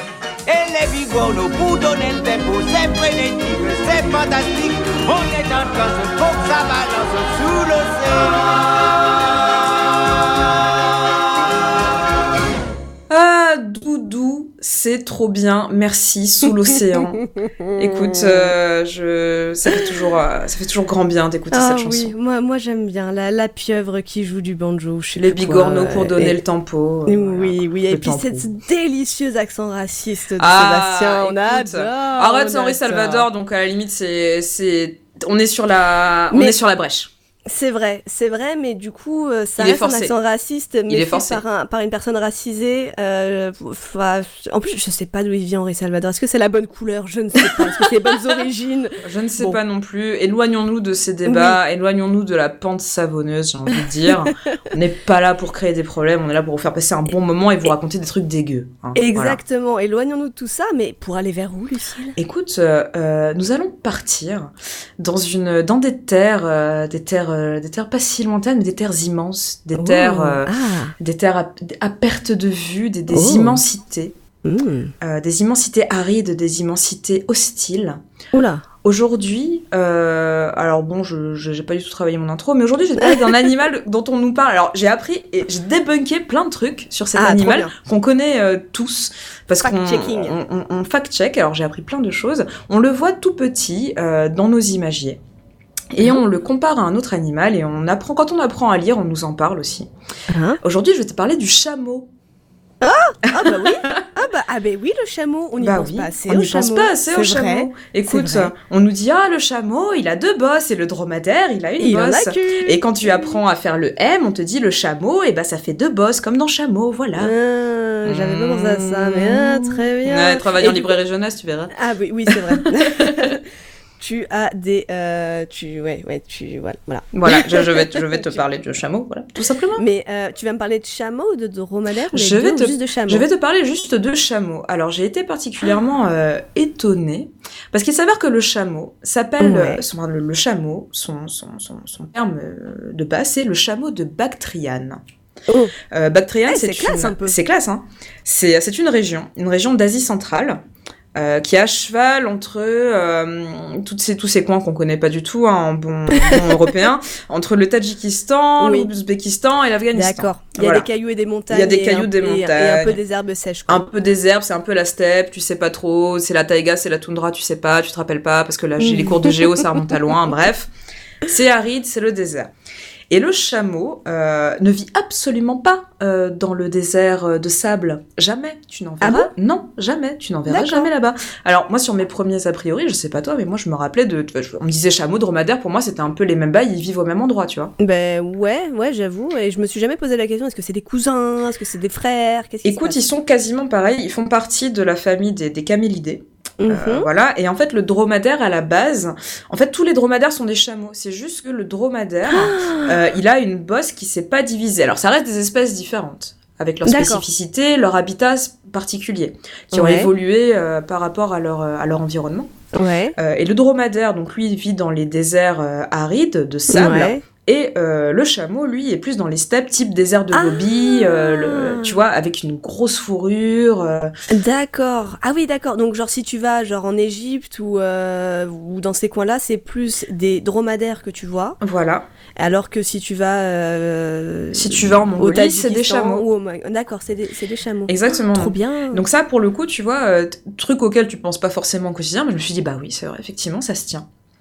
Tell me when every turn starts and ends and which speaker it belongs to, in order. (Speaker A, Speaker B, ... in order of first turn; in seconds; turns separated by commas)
Speaker A: 0.4-11.6, Speaker B: 13.1-22.1, Speaker C: 21.5-26.4, Speaker B: 25.1-28.4, Speaker C: 27.1-33.2, Speaker B: 30.4-37.1, Speaker C: 36.3-36.6, Speaker C: 37.5-49.6, Speaker B: 39.6-40.1, Speaker B: 40.9-41.4, Speaker B: 49.0-59.4, Speaker C: 51.2-51.6, Speaker C: 58.9-62.2, Speaker B: 62.2-74.2, Speaker C: 69.8-70.9, Speaker C: 73.1-73.6, Speaker C: 74.4-74.9, Speaker B: 75.0-78.0, Speaker C: 78.3-78.7, Speaker B: 78.8-95.2, Speaker C: 83.0-83.3, Speaker C: 87.2-87.7, Speaker C: 89.6-90.3, Speaker B: 95.9-99.9, Speaker C: 100.3-100.6, Speaker B: 100.6-102.1, Speaker C: 102.8-108.5, Speaker B: 103.3-104.0, Speaker B: 105.6-117.3, Speaker C: 111.8-113.4, Speaker C: 117.2-120.9, Speaker B: 118.0-121.7, Speaker C: 121.7-123.4, Speaker B: 122.3-123.3, Speaker C: 124.0-128.4, Speaker B: 127.1-129.8, Speaker C: 129.8-133.2, Speaker B: 132.1-145.0, Speaker C: 139.4-139.8, Speaker C: 145.5-145.7, Speaker B: 145.9-150.6, Speaker C: 146.5-147.4, Speaker B: 151.1-160.9, Speaker C: 156.1-156.7, Speaker C: 158.6-158.9, Speaker C: 159.9-163.8, Speaker B: 161.5-163.0, Speaker B: 163.7-170.7, Speaker C: 168.8-169.7, Speaker B: 171.2-172.5, Speaker B: 173.1-187.7, Speaker C: 179.0-179.3, Speaker C: 180.5-180.9, Speaker C: 187.8-193.0, Speaker B: 192.6-212.5, Speaker C: 196.6-197.1, Speaker C: 202.3-203.0, Speaker C: 206.8-207.2, Speaker C: 209.7-210.1, Speaker C: 212.7-213.1, Speaker B: 213.2-224.1, Speaker C: 216.7-217.2, Speaker C: 220.3-222.0, Speaker C: 224.3-231.6, Speaker B: 231.6-232.0, Speaker C: 232.4-239.0, Speaker B: 234.5-236.2, Speaker B: 237.9-244.1